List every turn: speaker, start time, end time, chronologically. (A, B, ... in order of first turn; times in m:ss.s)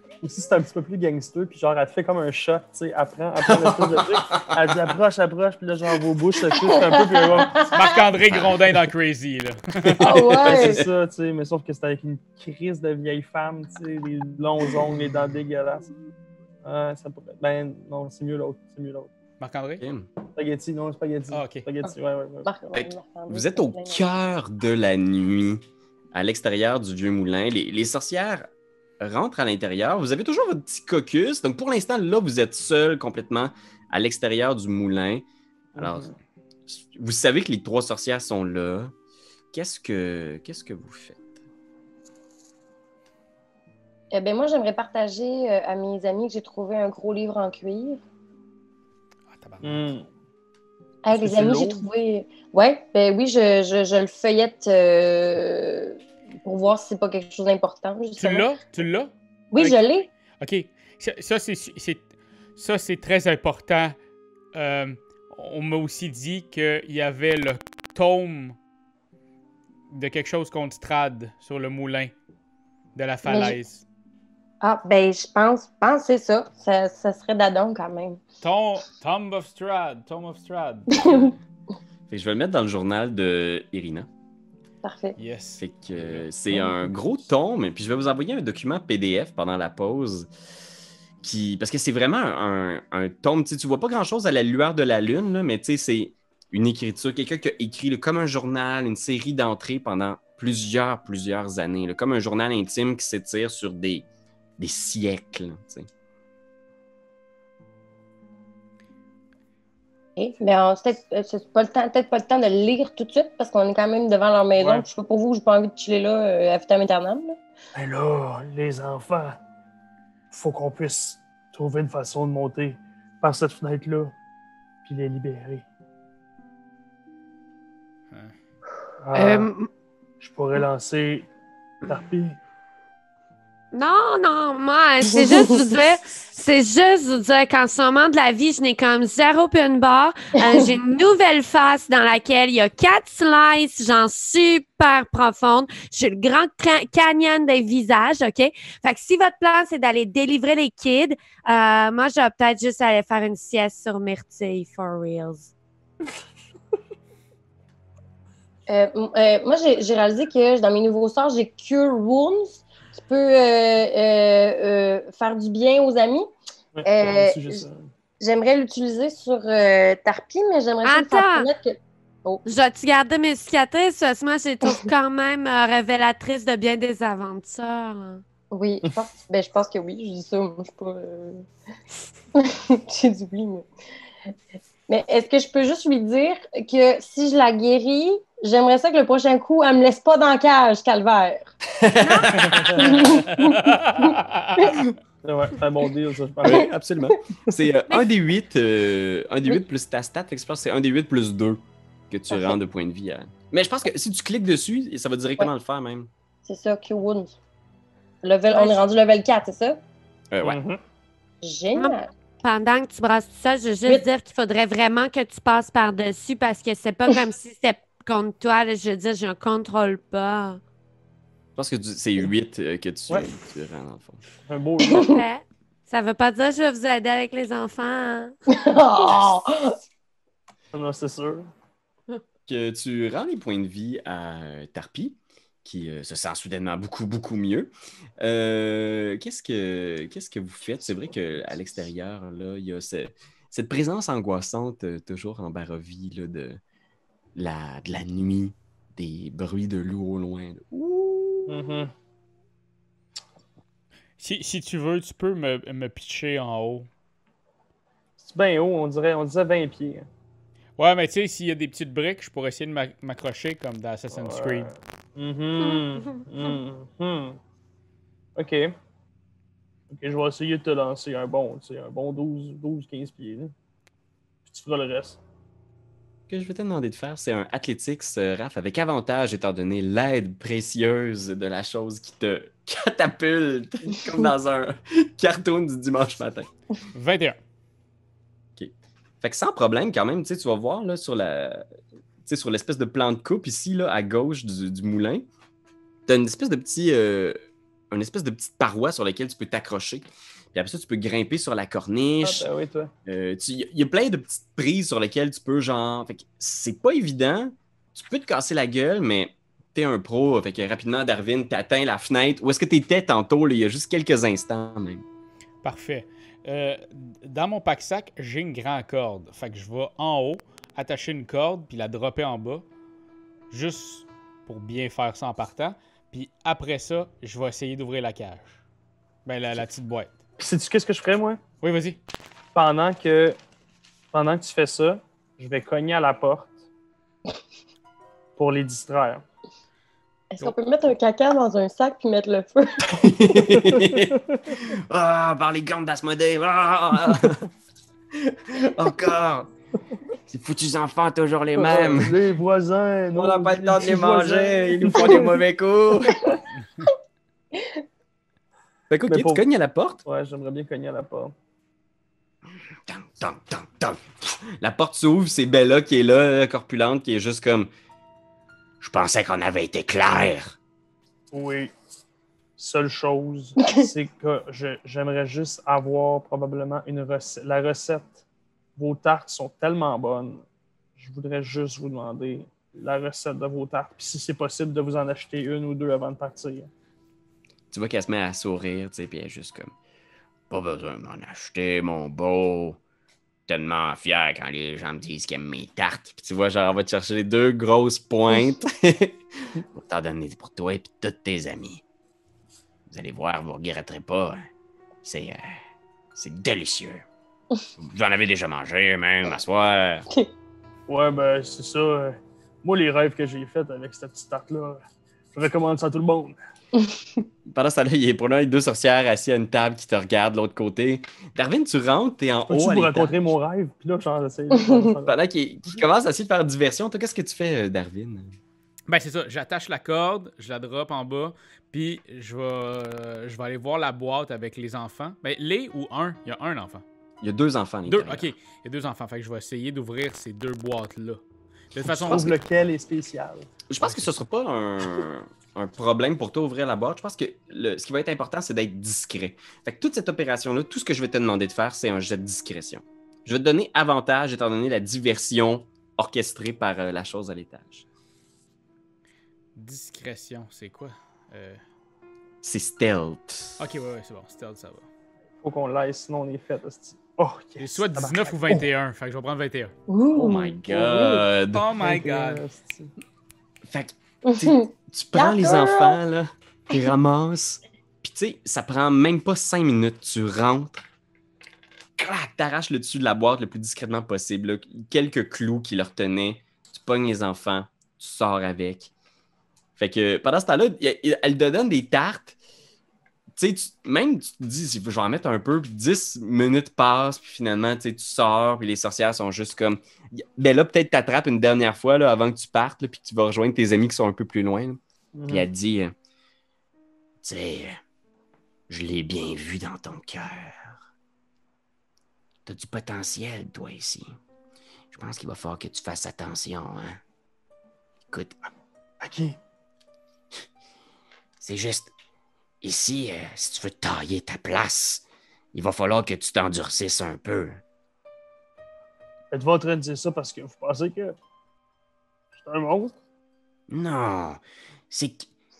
0:00.2-0:07.7 A
0:03.5-0:04.6 B
0:06.6-0:08.1 C
0:07.7-0:10.1 D
0:08.3-0:08.5 B
0:09.9-0:10.8 B
0:10.0-0:10.8 C
0:10.4-0:15.9 A
0:16.6-0:19.1 A
0:19.4-0:19.8 D
0:19.8-0:20.1 B
0:20.4-0:22.5 A
0:21.3-0:21.7 D
0:22.4-0:24.1 C
0:22.7-0:25.6 B
0:26.1-0:28.5 B
0:29.0-0:35.2 B
0:35.8-0:36.1 A
0:35.8-0:36.1 B
0:36.7-0:38.9 B
0:39.5-0:41.4 B
0:44.1-0:48.0 C
0:49.3-0:50.0 D
0:49.6-0:50.1 A
0:51.0-0:58.5 C
0:51.1-0:51.8 D
0:58.2-0:59.8 D
0:59.5-1:00.1 C
1:00.4-1:04.0 D
1:04.5-1:08.6 D
1:09.9-1:12.1 D
1:13.0-1:13.8 D
1:13.3-1:13.6 C
1:14.6-1:18.2 C
1:18.4-1:21.0 D
1:20.9-1:21.3 C
1:21.0-1:21.3 B
1:22.1-1:24.1 B
1:24.8-1:25.2 C
1:25.2-1:26.3 D
1:25.6-1:30.3 B
1:31.2-1:44.1 B
1:44.6-1:45.9 B
1:50.2-1:57.4 C
1:54.6-1:54.9 A
1:57.8-1:59.4 A
2:00.3-2:04.1 A
2:04.8-2:05.6 A
2:08.1-2:08.4 D
2:09.0-2:09.5 A
2:09.1-2:09.7 E
2:10.2-2:11.3 A
2:11.8-2:12.4 A
2:13.7-2:35.5 E
2:38.7-2:46.3 C
2:46.8-2:47.9 A
2:46.8-2:47.6 C
2:48.2-2:52.4 C
2:50.8-2:51.5 E
2:52.5-2:58.2 E
2:58.5-3:01.5 C
3:02.4-3:03.6 C
3:04.9-3:11.5 C
3:11.7-3:13.0 B
3:12.0-3:12.8 E
3:12.5-3:13.1 A
3:12.8-3:13.4 C
3:13.3-3:14.7 D
3:14.0-3:14.8 C
3:15.2-3:16.7 A
3:16.4-3:26.1 B
3:22.3-3:22.6 C
3:26.4-3:27.4 C
3:28.2-3:29.8 C
3:28.5-3:28.8 E
3:30.3-3:30.6 B
3:30.4-3:30.8 A
3:31.4-3:32.1 C
3:31.8-3:40.6 E
3:41.6-3:44.2 B
3:44.5-3:45.1 A
3:44.9-3:48.4 E
3:48.5-3:49.8 C
3:50.7-3:51.5 A
3:52.5-3:57.7 B
3:58.2-4:06.6 B
4:07.4-4:11.6 B
4:11.5-4:11.9 A
4:14.2-4:16.9 D
4:18.2-4:20.1 A
4:20.8-4:24.7 D
4:24.1-4:27.4 A
4:25.8-4:26.2 E
4:28.4-4:28.7 A
4:29.9-4:33.5 A
4:34.5-4:35.2 A
4:36.3-4:46.5 B
4:46.9-4:47.4 D
4:48.6-4:51.6 B
4:52.2-4:55.3 B
4:56.1-4:57.4 B
4:57.9-5:02.5 B
5:02.2-5:02.9 A
5:03.1-5:15.0 B
5:15.6-5:22.6 D
5:23.5-5:28.6 D
5:29.3-5:30.2 D
5:30.4-5:31.4 A
5:31.6-5:32.0 D
5:32.6-5:33.4 A
5:34.1-5:36.6 A
5:38.4-5:39.2 A
5:40.3-5:43.0 C
5:42.9-5:47.5 B
5:43.4-5:44.4 A
5:48.2-5:49.5 B
5:50.3-5:52.2 B
5:51.6-5:55.4 A
5:53.2-5:56.4 B
5:58.9-6:00.0 B
5:59.1-5:59.4 A
6:00.1-6:01.3 A
6:02.9-6:07.7 B
6:08.8-6:10.6 B
6:11.3-6:11.7 A
6:12.6-6:18.2 A
6:18.8-6:20.4 A
6:21.0-6:26.7 A
6:27.7-6:29.7 B
6:30.5-6:32.8 B
6:33.5-6:41.8 B
6:42.9-6:44.5 B
6:45.0-6:45.6 B
6:46.1-6:47.0 B
6:47.8-6:50.1 B
6:50.9-6:54.8 A
6:55.4-6:56.4 A
6:57.5-7:03.2 B
7:02.5-7:05.2 A
7:05.1-7:08.4 B
7:08.9-7:16.8 D
7:17.2-7:18.3 B
7:17.9-7:21.2 D
7:21.7-7:22.4 D
7:21.9-7:23.5 A
7:23.7-7:37.9 B
7:39.6-7:41.6 D
7:42.4-7:43.6 B
7:43.6-7:44.9 D
7:45.4-7:48.6 A
7:47.6-7:49.7 D
7:49.9-7:50.9 C
7:50.1-7:51.6 B
7:50.7-7:51.2 A
7:51.5-7:52.4 D
7:51.8-7:52.9 A
7:53.7-8:00.8 B
7:54.3-7:56.0 C
8:02.0-8:08.9 B
8:09.8-8:12.4 B
8:13.4-8:25.9 B
8:25.1-8:25.5 A
8:27.2-8:27.8 B
8:28.7-8:30.8 B
8:32.5-8:34.1 B
8:34.9-8:37.0 B
8:38.1-8:38.4 B
8:39.0-8:39.4 A
8:41.4-8:41.9 B
8:42.6-8:47.6 B
8:49.3-8:51.2 A
8:52.4-8:53.0 A
8:53.7-8:55.3 B